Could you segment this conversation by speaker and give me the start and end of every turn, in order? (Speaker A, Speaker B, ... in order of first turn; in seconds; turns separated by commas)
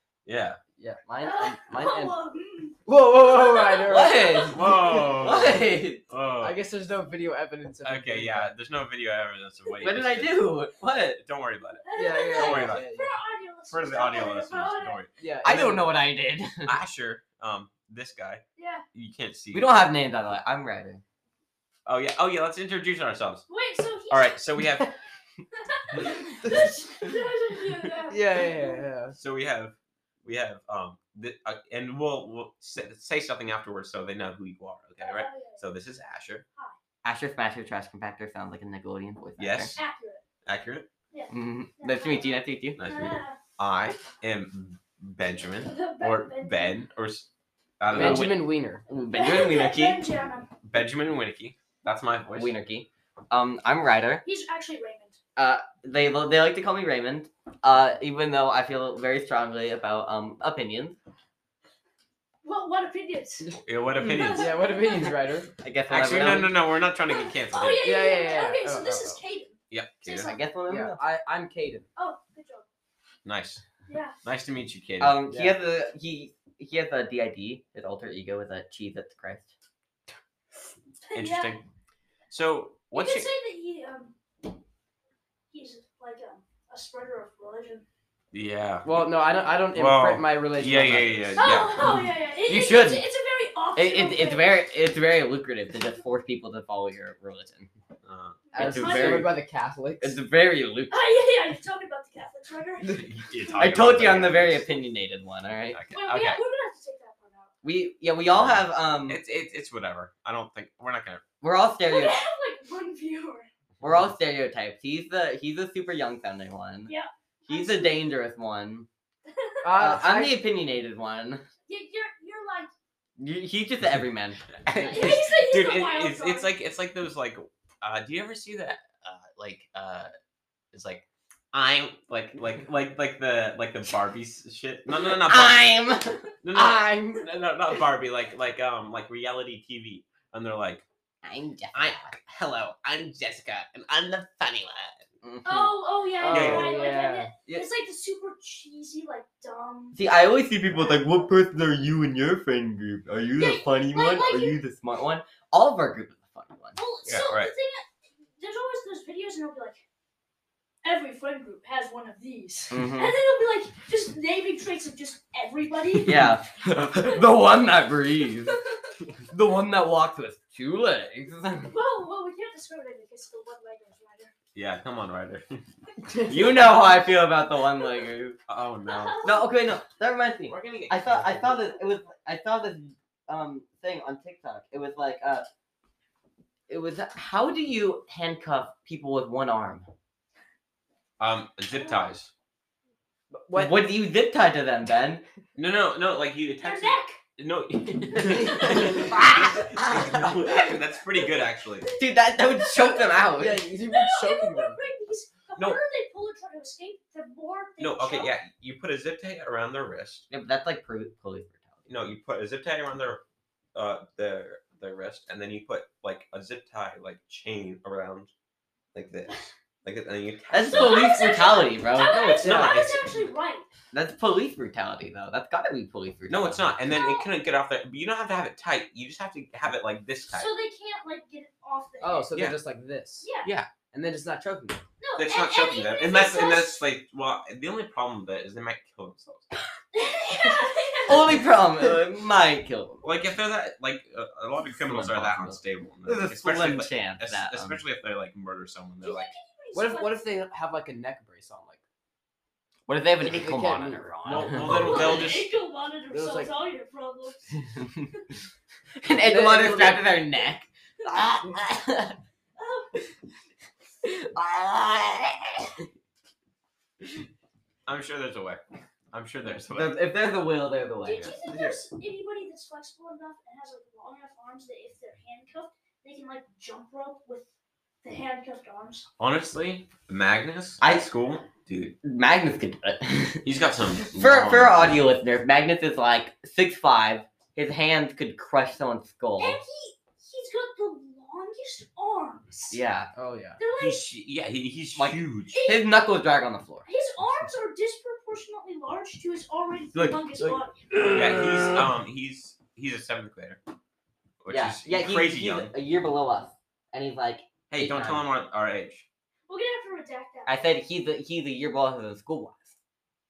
Speaker A: 0.2-0.6, Speaker B: 1.0-2.1, Speaker C: 1.2-5.0, Speaker D: 2.9-5.4, Speaker B: 3.9-6.0, Speaker A: 4.5-6.6, Speaker D: 6.4-8.5, Speaker A: 7.8-10.5, Speaker B: 9.8-11.2, Speaker A: 11.2-12.9, Speaker C: 11.8-15.0, Speaker D: 11.9-13.1, Speaker A: 13.7-15.1, Speaker D: 15.2-15.8, Speaker B: 15.4-16.7, Speaker A: 16.6-18.4, Speaker C: 18.6-18.8, Speaker A: 18.9-19.7, Speaker B: 19.5-21.0, Speaker A: 21.9-23.4, Speaker C: 23.5-24.4, Speaker A: 24.1-24.9, Speaker C: 25.5-28.9, Speaker D: 26.4-27.1, Speaker D: 28.1-29.1, Speaker A: 29.1-36.4, Speaker C: 35.0-35.6, Speaker B: 37.0-39.8, Speaker A: 39.4-39.8, Speaker C: 39.8-40.2, Speaker A: 40.4-40.9, Speaker C: 41.1-43.4, Speaker B: 41.3-42.8, Speaker A: 42.8-47.3, Speaker C: 45.6-46.8, Speaker A: 47.8-48.5, Speaker D: 47.9-48.8, Speaker B: 47.9-48.3, Speaker B: 48.9-50.0, Speaker C: 49.1-50.5, Speaker A: 49.2-50.0, Speaker A: 50.6-52.5, Speaker B: 52.3-54.2, Speaker C: 54.2-55.2, Speaker B: 55.4-61.0, Speaker C: 62.4-63.5, Speaker A: 63.6-64.6, Speaker C: 64.0-65.2, Speaker D: 64.2-65.5, Speaker B: 65.6-66.5, Speaker A: 65.9-67.9, Speaker C: 67.0-70.4, Speaker D: 67.8-69.2, Speaker A: 69.7-70.3, Speaker B: 70.1-71.0, Speaker D: 70.7-71.9, Speaker C: 72.0-72.7, Speaker A: 73.2-73.6, Speaker C: 73.9-74.2, Speaker A: 74.2-75.2, Speaker B: 75.0-79.5, Speaker D: 75.3-75.6, Speaker C: 81.0-81.6, Speaker A: 81.1-81.6, Speaker A: 82.3-83.3, Speaker C: 82.9-84.1, Speaker C: 85.5-87.8, Speaker A: 88.3-89.0, Speaker D: 88.8-91.5, Speaker A: 89.7-91.8, Speaker C: 91.3-94.6, Speaker B: 92.4-93.0, Speaker B: 93.7-97.7, Speaker A: 98.0-98.4, Speaker C: 98.5-99.3, Speaker D: 98.5-100.2, Speaker B: 98.5-99.3, Speaker B: 100.0-101.0, Speaker C: 100.9-103.5, Speaker A: 102.8-104.7, Speaker B: 103.6-105.8, Speaker A: 105.7-106.4, Speaker C: 105.9-107.5, Speaker B: 107.6-109.2, Speaker A: 108.2-111.2, Speaker B: 111.4-112.2, Speaker C: 111.8-113.5, Speaker B: 113.8-116.9, Speaker C: 116.9-118.0, Speaker B: 117.5-118.9, Speaker C: 119.3-119.7, Speaker D: 119.6-120.4, Speaker B: 119.7-121.4, Speaker C: 121.7-122.7, Speaker B: 123.2-124.4, Speaker A: 124.6-130.1, Speaker C: 124.7-126.5, Speaker A: 130.7-135.7, Speaker B: 135.0-136.3, Speaker A: 136.4-140.8, Speaker D: 136.5-137.2, Speaker B: 141.2-142.1, Speaker A: 141.7-145.0, Speaker B: 145.2-145.7, Speaker C: 145.4-150.0, Speaker D: 146.2-147.3, Speaker A: 146.3-146.7, Speaker B: 146.3-147.7, Speaker B: 149.9-156.8, Speaker C: 153.4-154.6, Speaker C: 156.8-157.8, Speaker A: 157.1-157.5, Speaker C: 158.4-159.8, Speaker C: 160.8-166.3, Speaker B: 162.7-163.1, Speaker B: 166.0-168.6, Speaker B: 169.3-171.7, Speaker C: 171.7-174.3, Speaker A: 174.5-175.6, Speaker B: 176.2-178.4, Speaker A: 178.5-179.2, Speaker C: 178.9-179.5, Speaker B: 179.2-185.4, Speaker A: 180.4-181.7, Speaker B: 186.7-189.9, Speaker A: 191.2-192.3, Speaker C: 191.8-192.0, Speaker D: 193.3-193.8, Speaker B: 193.5-195.2, Speaker A: 195.5-201.9, Speaker C: 196.6-197.2, Speaker C: 198.3-199.0, Speaker B: 198.6-200.7, Speaker C: 201.8-203.2, Speaker B: 201.9-203.6, Speaker D: 203.4-204.8, Speaker C: 203.8-208.3, Speaker A: 207.8-210.2, Speaker B: 210.3-211.9, Speaker A: 211.9-213.2, Speaker A: 213.7-218.3, Speaker A: 218.9-221.1, Speaker B: 220.5-222.7, Speaker C: 220.7-223.7, Speaker D: 222.4-222.9, Speaker A: 222.4-223.0, Speaker B: 223.9-226.7, Speaker A: 226.3-230.5, Speaker C: 226.9-227.3, Speaker C: 230.3-232.3, Speaker D: 232.0-233.3, Speaker C: 233.2-233.5, Speaker A: 233.4-233.7, Speaker D: 233.9-234.8, Speaker C: 235.0-236.8, Speaker A: 235.2-239.5, Speaker C: 239.9-241.5, Speaker B: 241.1-243.0, Speaker A: 243.0-249.3, Speaker B: 244.7-247.8, Speaker C: 249.0-250.2, Speaker D: 249.7-251.8, Speaker B: 252.9-255.1, Speaker D: 253.2-254.8, Speaker A: 254.2-255.5, Speaker C: 254.6-257.5, Speaker D: 256.1-256.5, Speaker B: 259.0-262.2, Speaker D: 259.2-260.1, Speaker C: 262.6-262.9, Speaker B: 264.0-265.7, Speaker A: 267.9-270.0, Speaker B: 269.7-271.4, Speaker C: 271.0-277.5, Speaker C: 278.0-279.1, Speaker A: 279.2-281.9, Speaker B: 280.8-281.1, Speaker B: 282.0-283.4, Speaker A: 283.4-285.0, Speaker B: 284.1-289.6, Speaker C: 289.4-292.8, Speaker B: 292.7-293.1, Speaker D: 293.1-293.6, Speaker C: 293.6-294.1, Speaker A: 293.8-295.6, Speaker B: 294.9-296.9, Speaker C: 295.5-295.9, Speaker C: 296.9-300.8, Speaker A: 299.9-303.6, Speaker B: 301.0-301.8, Speaker A: 304.4-305.7, Speaker B: 304.5-308.2, Speaker A: 307.7-309.0, Speaker C: 309.5-310.6, Speaker B: 310.4-312.7